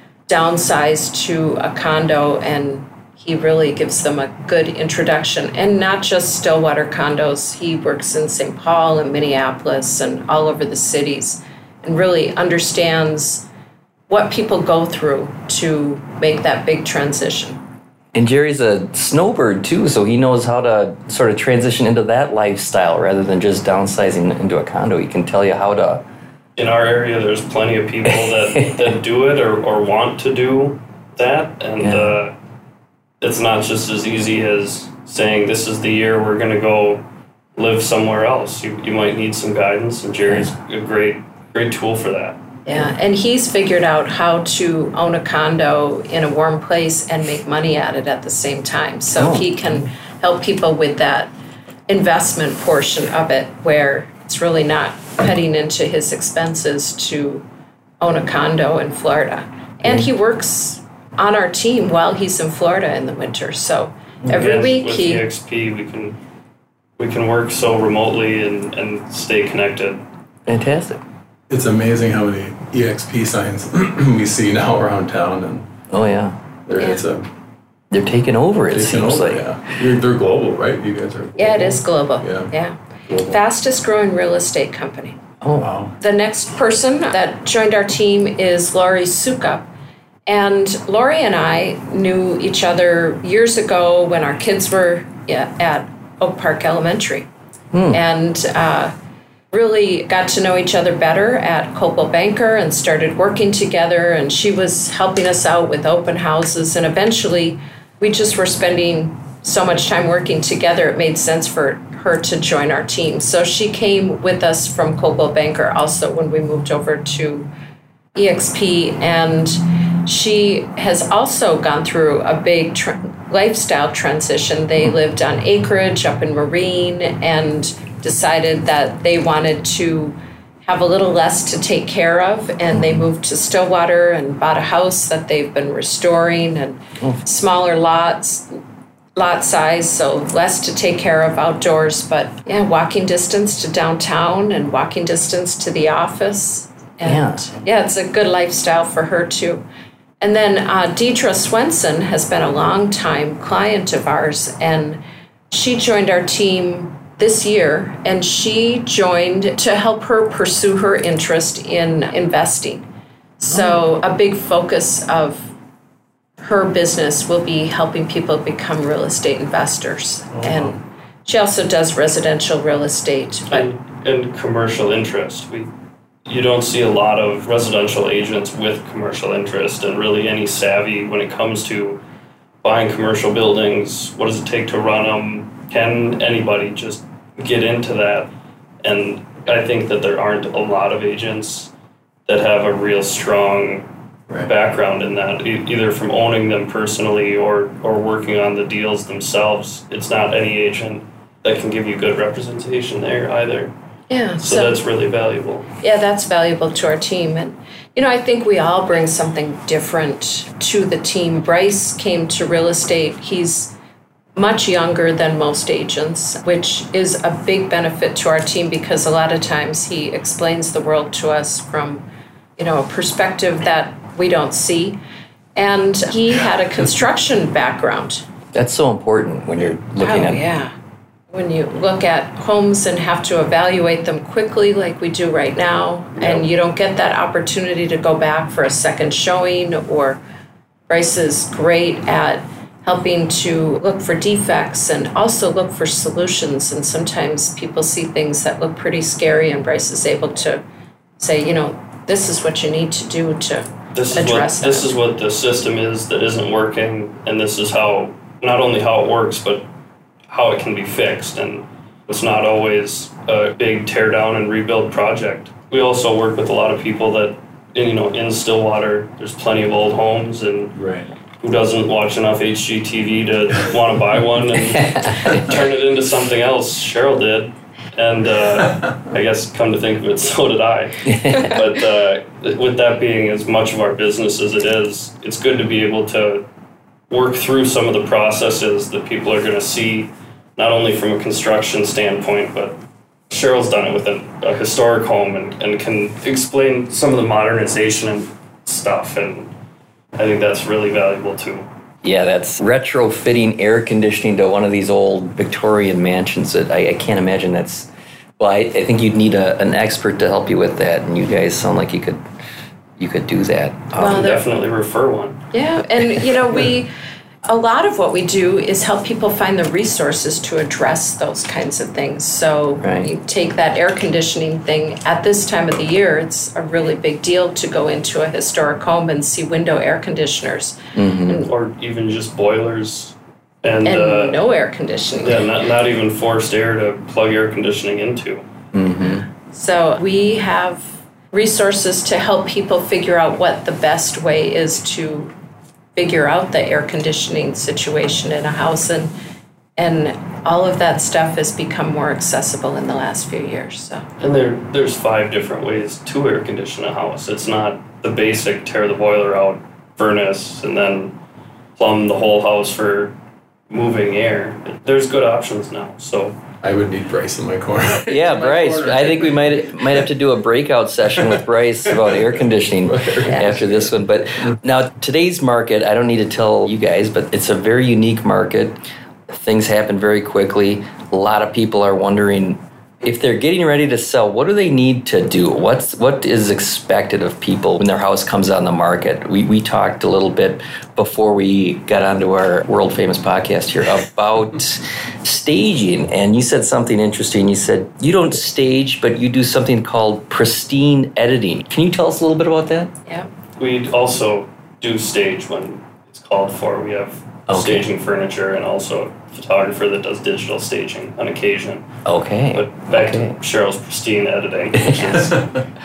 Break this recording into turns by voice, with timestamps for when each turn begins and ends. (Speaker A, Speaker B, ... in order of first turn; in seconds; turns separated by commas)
Speaker A: 0.3-13.5, Speaker A: 14.1-17.6, Speaker B: 18.1-26.0, Speaker C: 26.6-32.4, Speaker B: 28.1-28.8, Speaker B: 31.8-32.2, Speaker C: 33.2-37.0, Speaker C: 37.5-42.4, Speaker A: 42.6-51.3, Speaker B: 49.2-49.8, Speaker A: 51.9-57.5, Speaker A: 58.0-65.2, Speaker C: 64.3-66.2, Speaker C: 67.0-70.0, Speaker B: 70.5-71.0, Speaker D: 71.5-75.7, Speaker B: 75.9-76.4, Speaker D: 76.7-77.3, Speaker A: 76.8-77.0, Speaker B: 77.9-79.5, Speaker D: 78.7-82.5, Speaker A: 81.4-85.2, Speaker D: 83.1-83.4, Speaker B: 85.4-85.7, Speaker D: 85.6-86.0, Speaker A: 86.0-89.7, Speaker A: 90.3-97.3, Speaker B: 97.7-98.0, Speaker A: 97.9-98.9, Speaker A: 99.5-117.5, Speaker A: 118.2-138.5, Speaker B: 132.7-133.0, Speaker A: 139.2-149.7, Speaker B: 147.0-147.4, Speaker A: 150.2-162.8, Speaker A: 163.4-165.5, Speaker A: 166.4-173.7, Speaker D: 170.3-170.8, Speaker C: 173.5-175.7, Speaker C: 176.3-182.0, Speaker C: 182.6-188.3, Speaker C: 188.8-191.7, Speaker C: 192.3-193.9, Speaker C: 194.4-203.7, Speaker A: 204.1-204.8, Speaker C: 204.4-205.7, Speaker A: 205.8-213.7, Speaker A: 214.4-222.1, Speaker A: 222.6-225.0, Speaker A: 225.6-228.2, Speaker B: 228.5-230.4, Speaker A: 230.0-230.7, Speaker A: 231.3-240.2, Speaker C: 236.2-236.4, Speaker A: 240.9-250.6, Speaker A: 251.2-255.0, Speaker C: 253.9-259.7, Speaker C: 260.3-270.8, Speaker D: 270.8-271.1, Speaker C: 271.4-286.4, Speaker B: 274.8-275.5, Speaker D: 278.7-278.9, Speaker B: 281.1-281.6, Speaker C: 287.1-292.8, Speaker C: 293.3-299.5, Speaker C: 300.1-301.7, Speaker B: 302.0-312.2, Speaker B: 313.0-314.2, Speaker A: 314.0-314.5, Speaker C: 314.0-315.4, Speaker A: 315.5-316.9, Speaker A: 317.5-331.5, Speaker B: 322.8-323.1, Speaker B: 330.9-331.5, Speaker C: 331.4-334.4, Speaker A: 333.8-335.4, Speaker C: 335.2-338.4, Speaker B: 338.7-339.3, Speaker A: 339.5-345.3, Speaker A: 345.9-349.1, Speaker A: 349.8-354.1, Speaker C: 354.2-361.1, Speaker C: 361.8-363.1, Speaker C: 363.7-366.4, Speaker D: 366.6-370.1, Speaker B: 368.1-378.8, Speaker D: 371.1-371.4, Speaker D: 372.8-374.5, Speaker B: 379.3-402.9, Speaker C: 403.6-411.9, Speaker B: 407.5-407.9, Speaker B: 412.1-413.4, Speaker C: 412.5-415.4, Speaker B: 414.7-415.2, Speaker D: 415.1-415.6